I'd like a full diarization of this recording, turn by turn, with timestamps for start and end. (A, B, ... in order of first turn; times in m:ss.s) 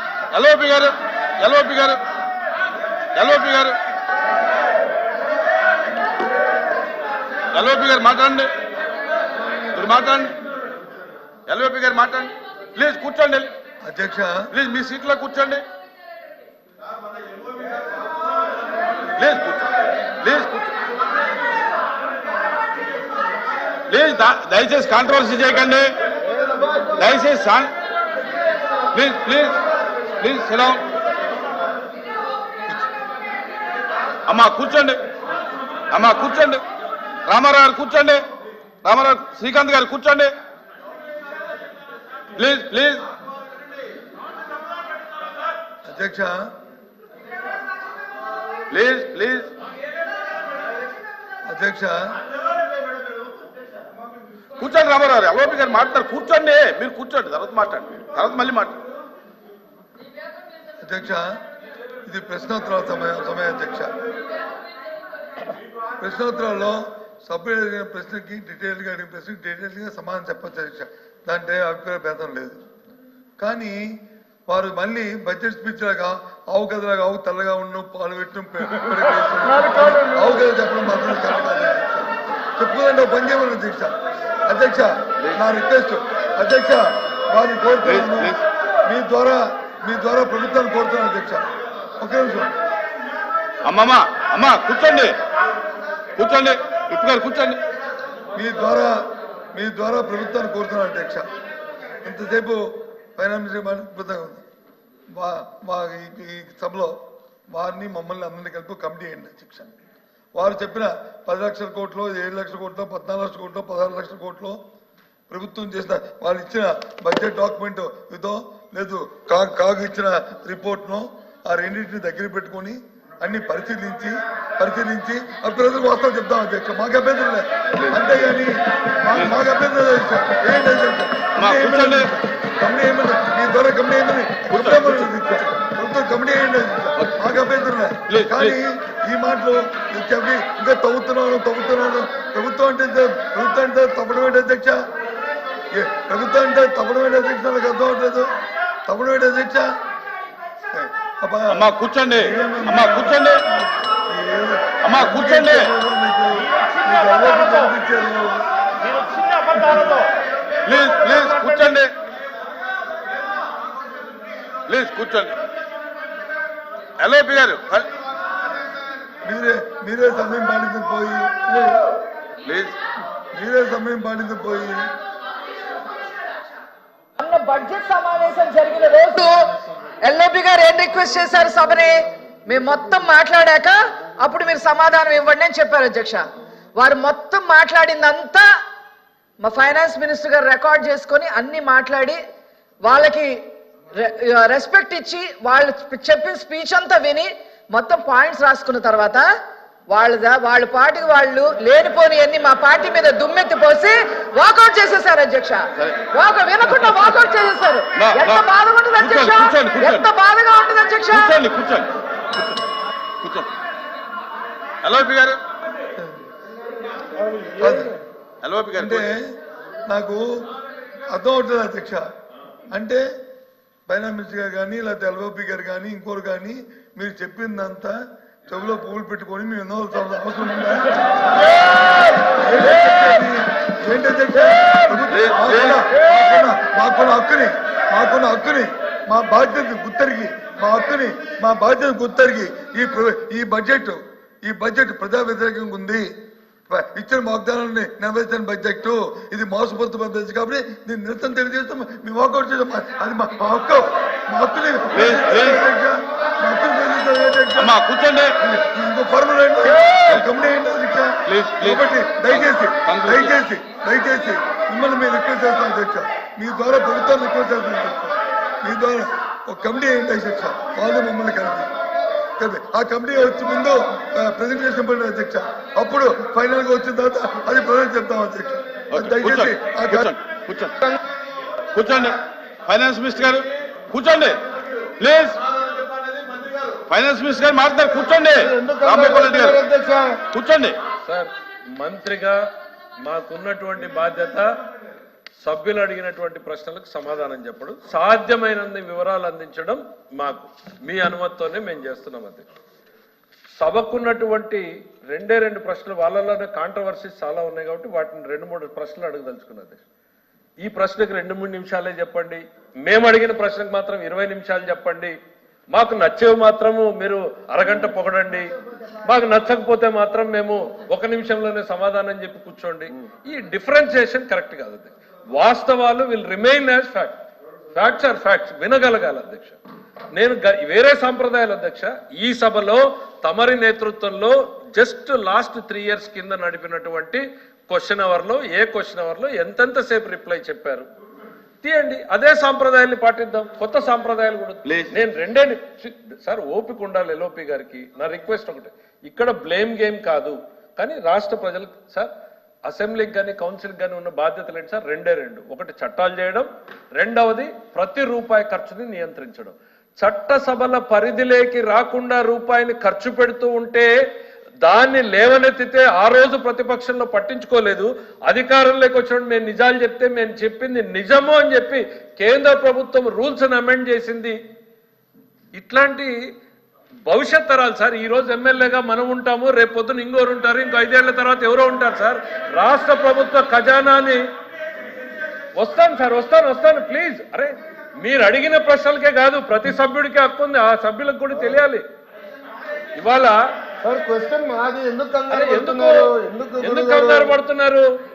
0:00.3-0:02.0 A
0:03.2-0:03.8 A
0:07.5-0:08.5 A
0:09.7-0:10.4 A
0:11.5-0:13.5 A
0:13.8-0:14.5 B
0:14.5-0:15.6 A
0:19.2-0:19.7 A
0:20.2-0:20.7 A
0:23.9-0:25.9 A
0:26.3-0:27.1 C
0:27.0-0:27.7 A
0:28.9-0:29.6 A
0:30.2-0:30.8 A
0:34.3-0:35.0 A
0:35.9-0:36.6 A
0:37.3-0:38.2 A
0:38.8-0:40.3 A
0:42.4-0:43.0 A
0:45.9-0:46.4 B
0:48.7-0:49.5 A
0:51.5-0:52.0 B
0:54.6-0:58.8 A
1:00.8-1:01.3 B
1:02.1-1:03.9 B
1:06.0-1:12.6 B
1:13.4-1:13.8 B
1:14.5-1:24.0 B
1:19.9-1:20.2 C
1:24.5-1:31.5 B
1:27.8-1:28.4 A
1:32.0-1:32.5 B
1:33.6-1:35.1 A
1:36.2-1:37.6 A
1:38.4-1:39.0 B
1:39.5-1:41.3 B
1:42.0-1:42.6 B
1:43.2-1:44.4 B
1:45.1-1:47.0 B
1:47.5-1:49.8 B
1:50.4-1:54.6 B
1:55.3-2:24.8 B
2:07.8-2:08.2 A
2:09.1-2:09.4 A
2:11.4-2:12.1 A
2:14.5-2:15.1 A
2:17.0-2:17.4 A
2:18.1-2:18.6 A
2:25.7-2:28.3 B
2:28.9-2:29.7 B
2:30.7-2:38.4 B
2:31.5-2:33.4 A
2:34.8-2:35.7 A
2:39.4-2:40.1 B
2:40.6-2:41.9 A
2:44.7-2:45.4 A
2:47.0-2:47.9 A
2:49.3-2:51.8 B
2:52.4-2:52.7 A
2:53.3-2:54.8 B
2:57.2-3:06.2 D
3:06.8-3:08.5 D
3:09.4-3:12.2 D
3:12.8-3:13.4 D
3:14.0-3:19.3 D
3:19.9-3:31.4 D
3:26.7-3:27.0 A
3:28.0-3:30.1 A
3:31.1-3:32.6 A
3:33.2-3:33.5 A
3:34.8-3:35.4 A
3:37.3-3:37.6 C
3:37.6-3:38.0 B
3:38.4-3:39.1 A
3:38.8-3:39.2 B
3:39.9-3:40.2 B
3:41.1-3:42.0 B
3:42.7-3:43.0 B
3:43.9-3:48.0 B
3:48.5-3:51.0 B
3:52.3-4:06.1 B
3:55.1-3:55.9 A
4:06.7-4:17.8 B
4:14.9-4:15.6 A
4:17.6-4:18.3 A
4:18.4-4:31.7 B
4:19.7-4:20.2 A
4:21.3-4:23.4 A
4:32.4-4:40.1 B
4:38.9-4:40.8 A
4:41.7-4:44.4 A
4:45.0-4:45.4 A
4:46.9-4:49.6 A
4:48.4-4:50.2 C
4:50.3-4:50.8 A
4:51.1-4:52.4 E
4:53.0-4:54.6 E
4:55.4-5:02.4 E
5:03.6-5:09.8 E
5:10.6-5:15.2 E
5:15.7-5:18.5 E
5:19.0-5:27.2 E
5:27.7-5:29.6 E
5:30.1-5:40.9 E
5:41.6-5:52.1 E
5:44.6-5:45.0 A
5:52.7-6:03.9 E
6:04.6-6:14.4 E
6:15.6-6:16.2 E
6:17.0-6:24.2 E
6:25.6-6:31.8 E
6:33.0-6:33.4 E
6:33.8-6:37.4 C
6:35.3-6:36.1 E
6:36.6-6:37.9 E